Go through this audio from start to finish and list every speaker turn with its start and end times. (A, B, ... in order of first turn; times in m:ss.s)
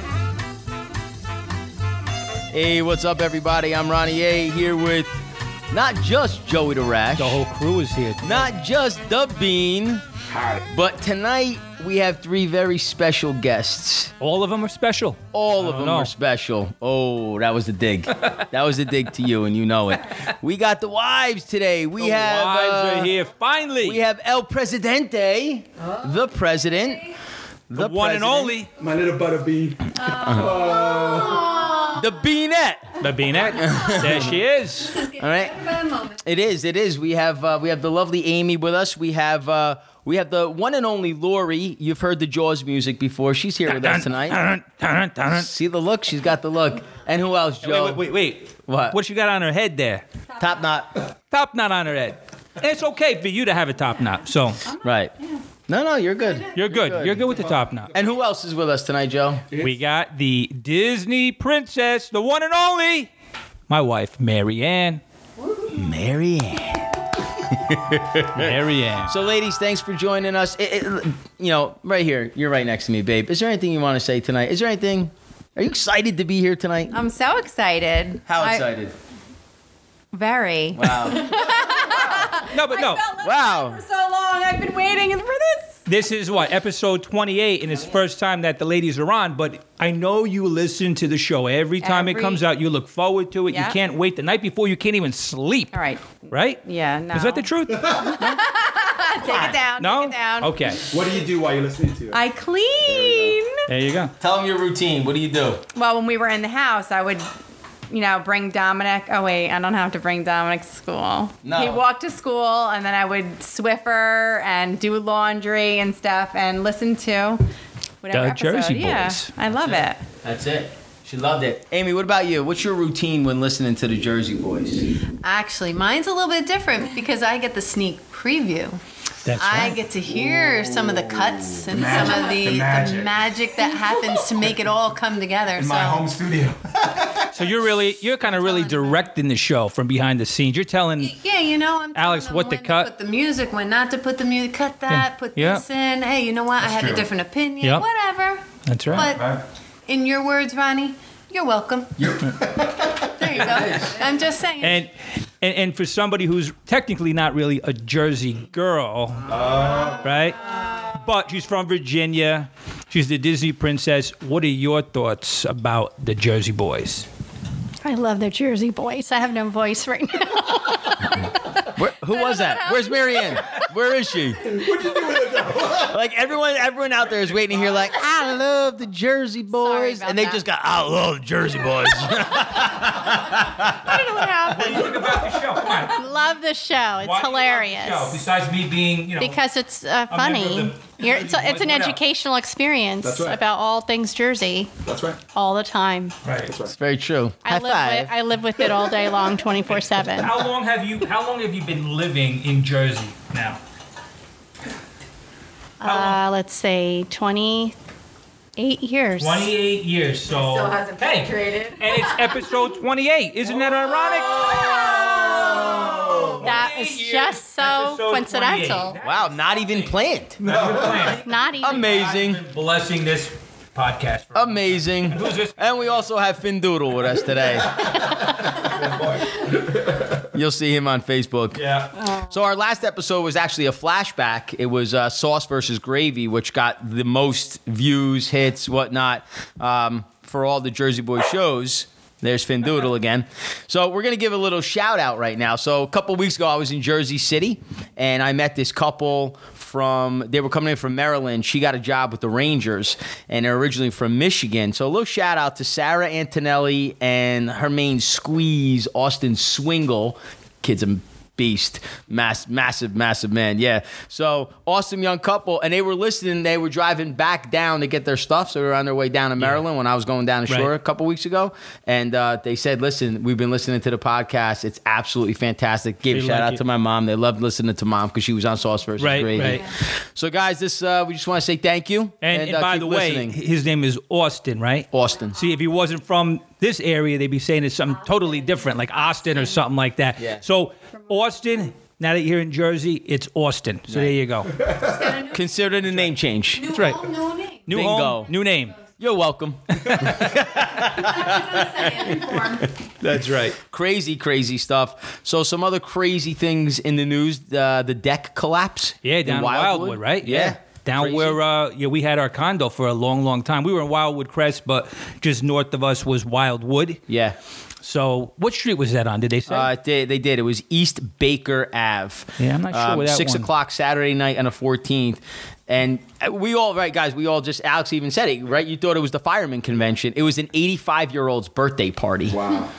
0:02.5-0:05.2 A
0:05.7-0:07.4 A
0:07.2-0:08.5 B
0:08.2-0:10.0 A
0:10.7-0:14.1 A
0:14.2-0:16.1 B
0:15.3-0:23.2 A
0:22.0-0:24.0 B
0:23.8-0:27.2 A
0:27.7-0:28.6 A
0:27.7-0:28.7 B
0:28.8-0:31.6 C
0:30.2-0:30.8 A
0:30.3-0:32.0 D
0:30.8-0:31.9 E
0:31.9-0:34.4 A
0:33.0-0:35.0 B
0:34.9-0:36.2 D
0:35.2-0:35.6 A
0:36.2-0:44.4 A
0:43.7-0:45.5 B
0:45.3-0:48.2 A
0:47.6-0:50.0 B
0:48.7-0:49.0 A
0:50.4-0:50.9 A
0:51.3-0:54.6 B
0:54.7-0:55.4 E
0:54.8-0:55.1 A
0:55.7-0:57.4 A
0:56.5-0:57.9 B
0:57.9-0:59.4 A
0:59.5-0:59.8 C
0:59.6-1:03.1 B
1:03.7-1:05.0 B
1:05.4-1:05.7 E
1:05.7-1:16.9 A
1:08.3-1:09.1 B
1:16.9-1:18.7 E
1:18.3-1:18.9 A
1:20.1-1:25.8 E
1:20.7-1:22.4 A
1:22.4-1:23.0 B
1:23.2-1:23.8 A
1:25.9-1:35.8 B
1:31.8-1:32.4 E
1:33.5-1:33.8 E
1:35.7-1:40.5 E
1:36.3-1:38.4 B
1:37.7-1:38.3 C
1:39.2-1:39.6 A
1:39.8-1:40.9 B
1:40.9-1:42.2 C
1:42.1-1:43.6 E
1:42.8-1:43.4 C
1:43.7-1:44.1 B
1:44.2-1:45.6 A
1:45.7-1:47.3 E
1:47.9-1:57.4 E
1:51.4-1:51.8 A
1:58.0-2:00.0 E
1:58.1-1:59.3 B
1:59.5-2:04.8 A
2:05.2-2:08.8 D
2:09.2-2:09.8 B
2:09.3-2:16.1 D
2:10.2-2:11.6 A
2:11.7-2:13.2 C
2:15.6-2:17.4 C
2:17.3-2:21.2 B
2:18.3-2:19.0 D
2:21.0-2:29.3 D
2:22.0-2:22.9 B
2:24.9-2:25.6 B
2:26.6-2:27.1 C
2:27.6-2:27.9 B
2:28.7-2:29.1 B
2:28.9-2:29.4 C
2:29.9-2:34.8 D
2:32.2-2:33.0 C
2:33.3-2:34.0 A
2:34.6-2:39.3 B
2:39.3-2:40.1 C
2:40.0-2:40.4 B
2:40.9-2:47.1 B
2:47.8-2:51.7 F
2:51.7-2:54.8 A
2:54.4-2:55.9 C
2:55.5-3:04.0 A
2:57.4-2:57.8 C
2:59.5-3:00.4 E
3:03.8-3:05.0 F
3:04.4-3:06.1 B
3:05.7-3:08.2 F
3:07.0-3:09.4 B
3:09.2-3:14.7 F
3:10.1-3:12.0 B
3:13.0-3:13.4 C
3:14.8-3:15.2 C
3:15.3-3:16.2 F
3:16.2-3:16.5 B
3:16.4-3:16.8 C
3:16.7-3:18.1 A
3:17.4-3:20.4 F
3:20.0-3:23.6 B
3:25.8-3:27.8 F
3:25.8-3:26.2 B
3:28.6-3:29.5 F
3:29.2-3:45.9 B
3:30.3-3:32.5 E
3:34.5-3:36.2 E
3:34.5-3:39.0 F
3:35.4-3:36.3 C
3:39.0-3:40.4 A
3:40.4-3:41.2 C
3:41.1-3:41.9 F
3:41.6-3:42.4 A
3:44.3-3:48.0 A
3:48.3-3:50.1 C
3:50.2-4:43.4 A
3:51.6-3:51.9 B
4:36.1-4:36.6 B
4:39.0-4:39.7 B
4:42.2-4:54.6 B
4:44.9-4:45.4 A
4:50.2-4:50.4 A
4:53.9-4:54.2 A
4:54.5-4:55.3 C
4:55.2-4:56.8 A
4:56.6-4:57.6 D
4:56.7-4:58.8 B
4:57.7-4:58.4 A
4:59.0-5:02.6 A
5:00.8-5:02.6 E
5:01.2-5:02.4 D
5:03.0-5:03.6 B
5:03.5-5:11.4 A
5:09.0-5:17.0 B
5:17.1-5:17.4 A
5:17.8-5:19.7 B
5:19.5-5:32.4 A
5:22.4-5:23.5 B
5:32.3-5:32.7 C